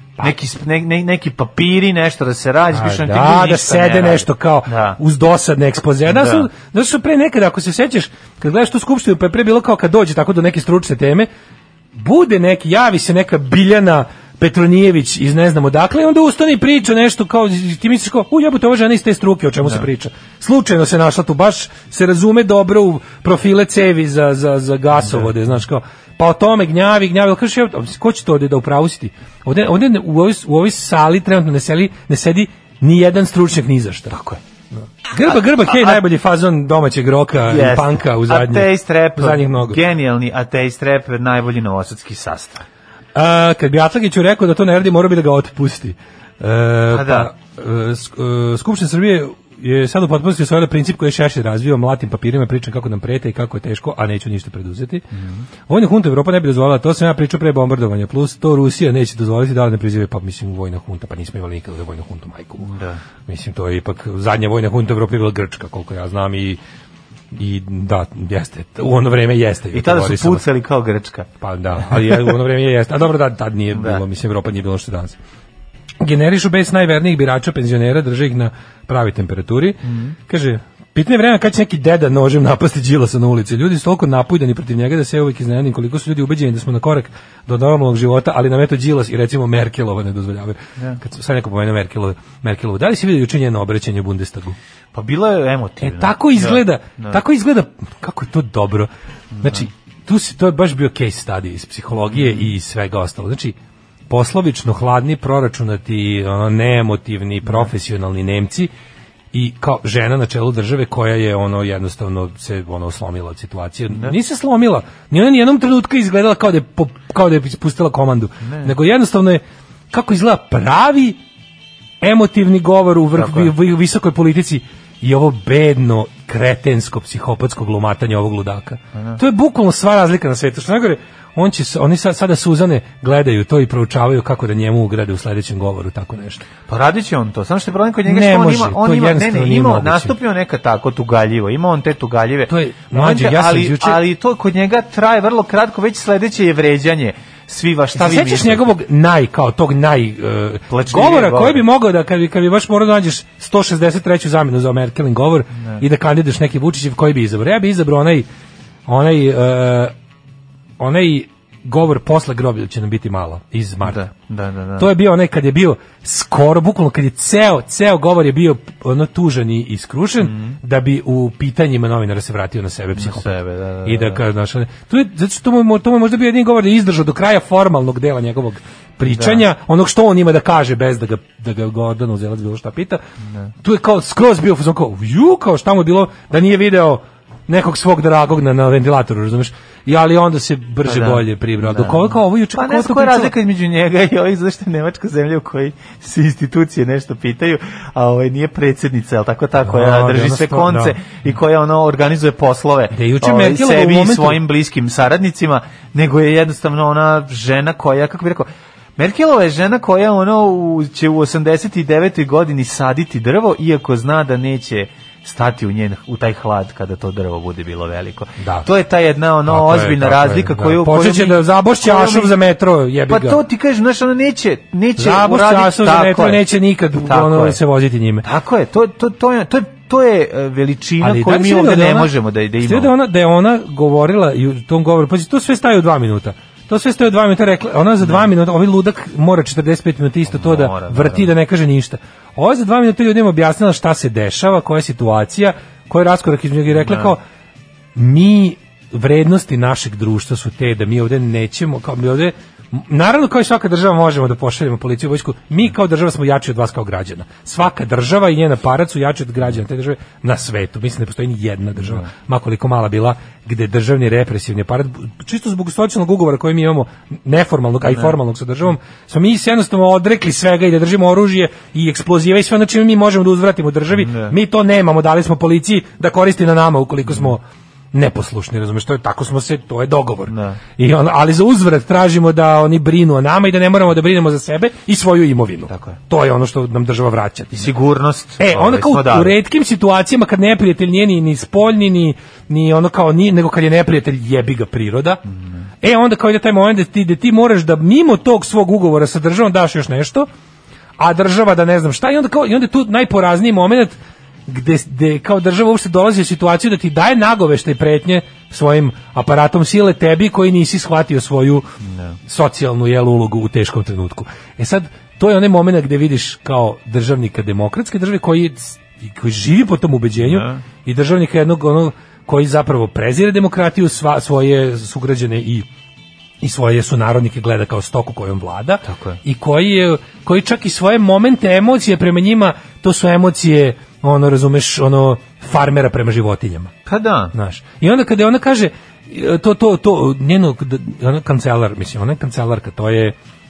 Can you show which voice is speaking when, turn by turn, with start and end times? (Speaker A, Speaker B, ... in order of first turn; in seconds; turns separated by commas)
Speaker A: 0.2-5.0, Speaker B: 2.7-11.3, Speaker A: 6.1-6.5, Speaker B: 11.9-34.1, Speaker A: 34.1-34.4, Speaker B: 35.1-39.8, Speaker A: 35.3-36.0, Speaker A: 37.5-42.6, Speaker B: 43.1-55.1, Speaker A: 46.9-47.3, Speaker A: 55.1-55.5, Speaker B: 55.7-62.7, Speaker A: 62.6-63.0, Speaker B: 63.3-66.6, Speaker B: 67.3-70.5, Speaker A: 69.7-71.3, Speaker B: 71.4-75.2, Speaker A: 73.7-74.0, Speaker B: 76.0-94.6, Speaker A: 79.8-80.2, Speaker A: 94.9-97.2, Speaker B: 95.8-98.9, Speaker A: 99.3-99.7, Speaker B: 99.4-103.6, Speaker A: 102.1-102.5, Speaker B: 104.1-108.7, Speaker B: 109.3-121.2, Speaker A: 118.4-118.7, Speaker B: 122.0-136.4, Speaker A: 123.2-123.5, Speaker A: 128.9-129.2, Speaker A: 136.7-148.7, Speaker B: 138.1-140.2, Speaker B: 142.5-144.0, Speaker B: 147.9-158.3, Speaker A: 150.7-151.6, Speaker A: 155.6-155.8, Speaker B: 158.9-159.9, Speaker B: 160.8-164.0, Speaker A: 163.8-164.9, Speaker B: 164.8-183.0, Speaker A: 170.2-170.6, Speaker A: 173.0-174.2, Speaker A: 179.0-179.4, Speaker B: 183.6-193.3, Speaker A: 190.8-222.4, Speaker B: 199.6-201.0, Speaker B: 202.9-204.4, Speaker B: 218.4-218.7, Speaker B: 219.5-223.4, Speaker A: 223.1-226.4, Speaker B: 225.0-228.3, Speaker A: 227.0-227.6, Speaker A: 228.2-232.9, Speaker B: 231.0-247.2, Speaker A: 238.0-238.3, Speaker A: 240.3-241.3, Speaker A: 246.8-247.1, Speaker B: 248.0-287.7, Speaker A: 261.8-262.1, Speaker A: 267.9-268.1, Speaker A: 273.9-274.3, Speaker A: 280.3-280.6, Speaker A: 285.7-286.0, Speaker A: 287.5-289.4, Speaker B: 288.4-295.2, Speaker A: 295.3-295.6, Speaker B: 295.8-300.3, Speaker B: 301.0-311.7, Speaker A: 311.8-312.2, Speaker B: 312.2-325.7, Speaker A: 320.2-320.6, Speaker B: 326.4-336.7, Speaker A: 328.9-329.2, Speaker A: 336.9-337.3, Speaker B: 337.3-343.2